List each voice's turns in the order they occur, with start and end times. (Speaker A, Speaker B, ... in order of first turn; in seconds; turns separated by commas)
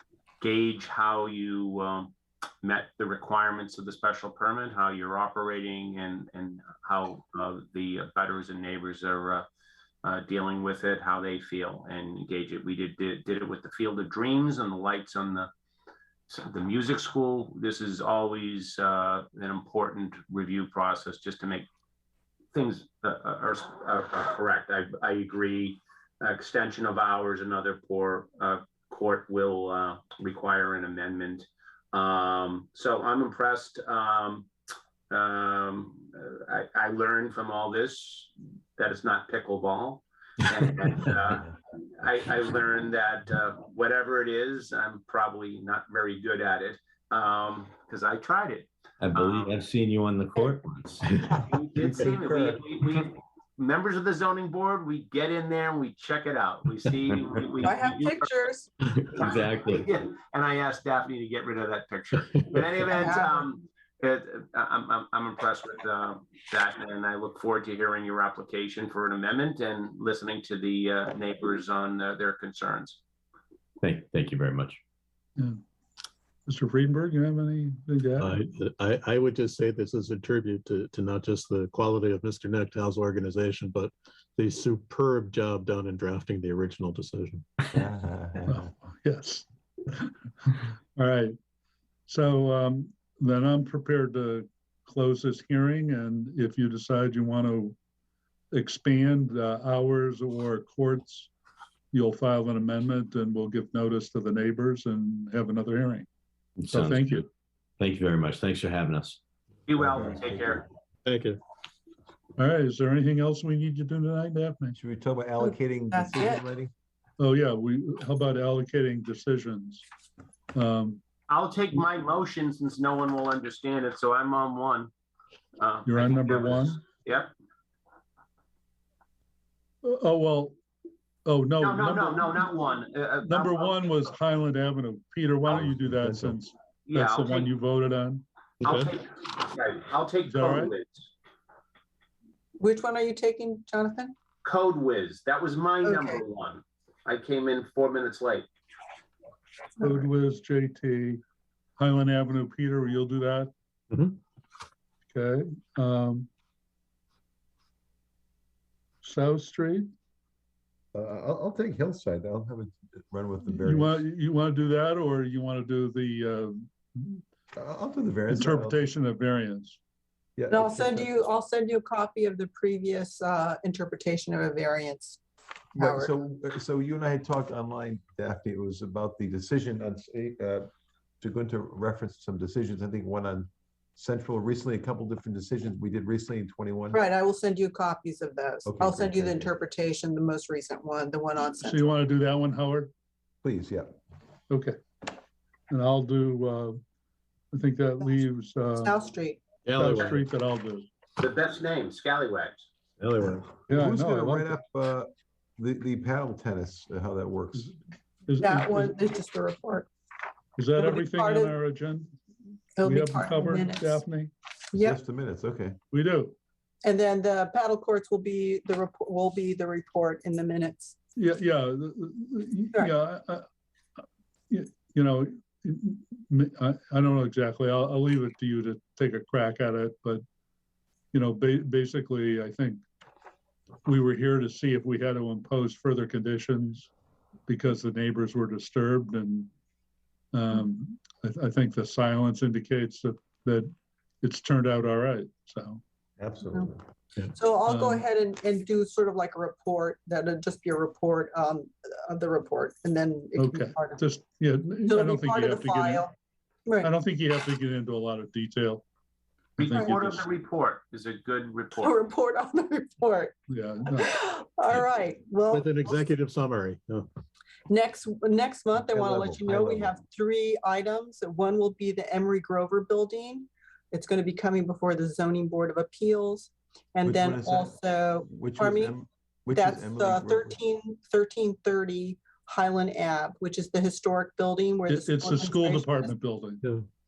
Speaker A: 0.4-9.4, Speaker A: 10.0-15.5, Speaker A: 16.3-21.7, Speaker A: 22.5-34.5, Speaker A: 35.1-49.6, Speaker B: 49.0-51.3, Speaker C: 51.2-52.6, Speaker A: 51.5-58.3, Speaker B: 57.0-57.4, Speaker D: 57.6-58.7, Speaker B: 59.0-59.9, Speaker A: 59.1-73.0, Speaker D: 62.9-63.3, Speaker B: 73.8-74.8, Speaker E: 76.5-78.3, Speaker F: 78.2-87.7, Speaker C: 87.7-88.7, Speaker E: 88.5-91.3, Speaker E: 92.1-97.8, Speaker E: 98.5-101.3, Speaker E: 101.9-106.1, Speaker B: 106.6-107.2, Speaker E: 106.7-107.3, Speaker B: 107.8-109.2, Speaker A: 109.7-110.6, Speaker C: 109.8-110.6, Speaker F: 111.0-111.4, Speaker E: 112.4-114.8, Speaker C: 114.8-116.7, Speaker D: 115.4-116.4, Speaker E: 117.2-119.8, Speaker E: 120.5-121.0, Speaker A: 121.3-124.9, Speaker A: 125.6-127.3, Speaker E: 125.8-126.8, Speaker E: 129.8-130.6, Speaker E: 131.2-132.4, Speaker A: 131.6-133.8, Speaker E: 133.2-138.2, Speaker C: 135.4-136.4, Speaker A: 136.9-137.5, Speaker F: 138.6-138.9, Speaker A: 138.6-141.1, Speaker E: 140.2-140.7, Speaker D: 142.6-144.1, Speaker A: 144.4-148.5, Speaker D: 145.8-146.2, Speaker E: 149.8-151.2, Speaker E: 151.8-153.5, Speaker F: 153.9-154.2, Speaker E: 155.1-156.3, Speaker E: 159.0-159.9, Speaker C: 160.9-164.0, Speaker E: 163.5-167.2, Speaker C: 167.6-168.8, Speaker E: 168.3-169.8, Speaker C: 170.4-171.2, Speaker D: 170.5-175.2, Speaker C: 175.7-180.7, Speaker D: 175.8-176.1, Speaker C: 181.2-187.0, Speaker D: 186.9-192.0, Speaker C: 188.6-189.5, Speaker E: 191.6-192.9, Speaker C: 193.4-193.9, Speaker E: 194.5-194.8, Speaker E: 195.7-196.8, Speaker E: 197.5-199.0, Speaker D: 198.8-199.4, Speaker F: 199.6-200.2, Speaker E: 199.7-200.8, Speaker A: 201.2-202.7, Speaker F: 203.0-203.6, Speaker E: 203.7-204.6, Speaker C: 203.7-207.7, Speaker E: 208.3-209.0, Speaker D: 208.4-209.8, Speaker E: 210.6-212.1, Speaker D: 210.7-211.5, Speaker D: 212.8-214.0, Speaker E: 212.8-214.3, Speaker D: 214.7-215.0, Speaker C: 214.7-215.8, Speaker E: 215.9-216.3, Speaker D: 216.8-220.9, Speaker E: 221.2-223.4, Speaker E: 224.5-230.2, Speaker E: 231.1-232.8, Speaker E: 233.8-236.9, Speaker E: 237.5-239.5, Speaker E: 240.3-243.7, Speaker E: 244.2-245.8, Speaker C: 246.2-246.8, Speaker D: 247.3-254.0, Speaker E: 247.7-248.0, Speaker E: 253.3-256.1, Speaker D: 254.9-256.1, Speaker D: 256.6-256.9, Speaker E: 256.8-258.8, Speaker A: 259.6-262.0, Speaker E: 259.6-260.3, Speaker D: 261.8-263.3, Speaker E: 263.5-264.1, Speaker D: 263.9-266.1, Speaker F: 265.5-267.1, Speaker D: 267.7-278.9, Speaker C: 268.8-269.9, Speaker C: 277.0-280.6, Speaker D: 279.5-286.1, Speaker E: 284.9-286.6